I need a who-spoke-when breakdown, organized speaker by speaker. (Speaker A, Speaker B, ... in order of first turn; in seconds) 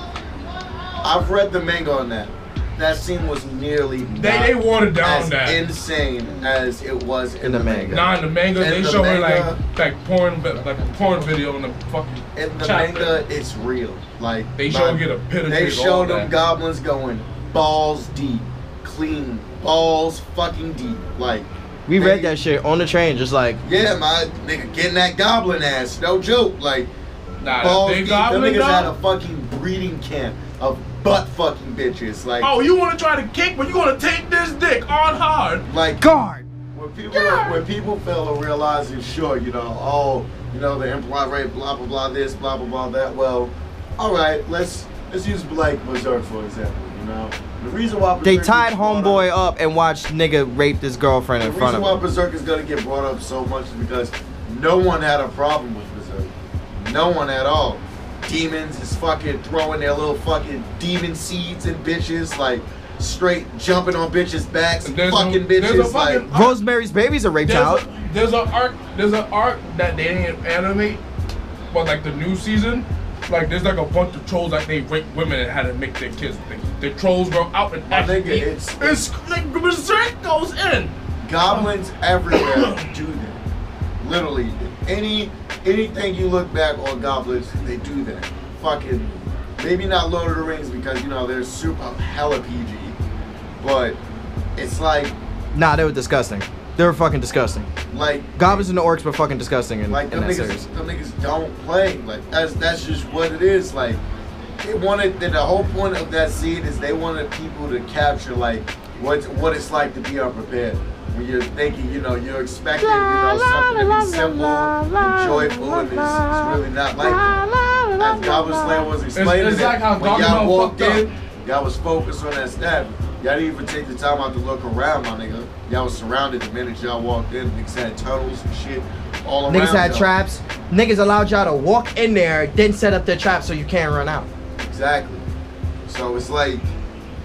Speaker A: 1.0-9.6, 12.3-22.3, 23.6-26.9, 27.6-32.5, 35.6-36.0, 36.7-49.2, 51.4-66.2, 77.9-79.0, 81.2-83.4, 84.0-93.0, 93.6-94.0, 94.5-95.1, 97.9-98.7, 99.9-104.0, 104.6-117.4, 118.0-130.1, 134.6-135.2, 135.8-136.7
Speaker B: 4.2-5.7, 7.9-13.2, 14.6-16.3, 27.4-28.9, 32.4-35.6, 64.8-66.6, 67.4-71.0, 71.7-80.9, 81.5-81.7, 82.3-82.9, 119.1-121.1
Speaker C: 7.4-8.1, 21.9-23.6, 36.0-36.5, 37.1-37.6, 48.2-52.0, 66.3-67.8, 95.5-97.7, 98.4-100.7, 112.8-118.9, 129.5-134.3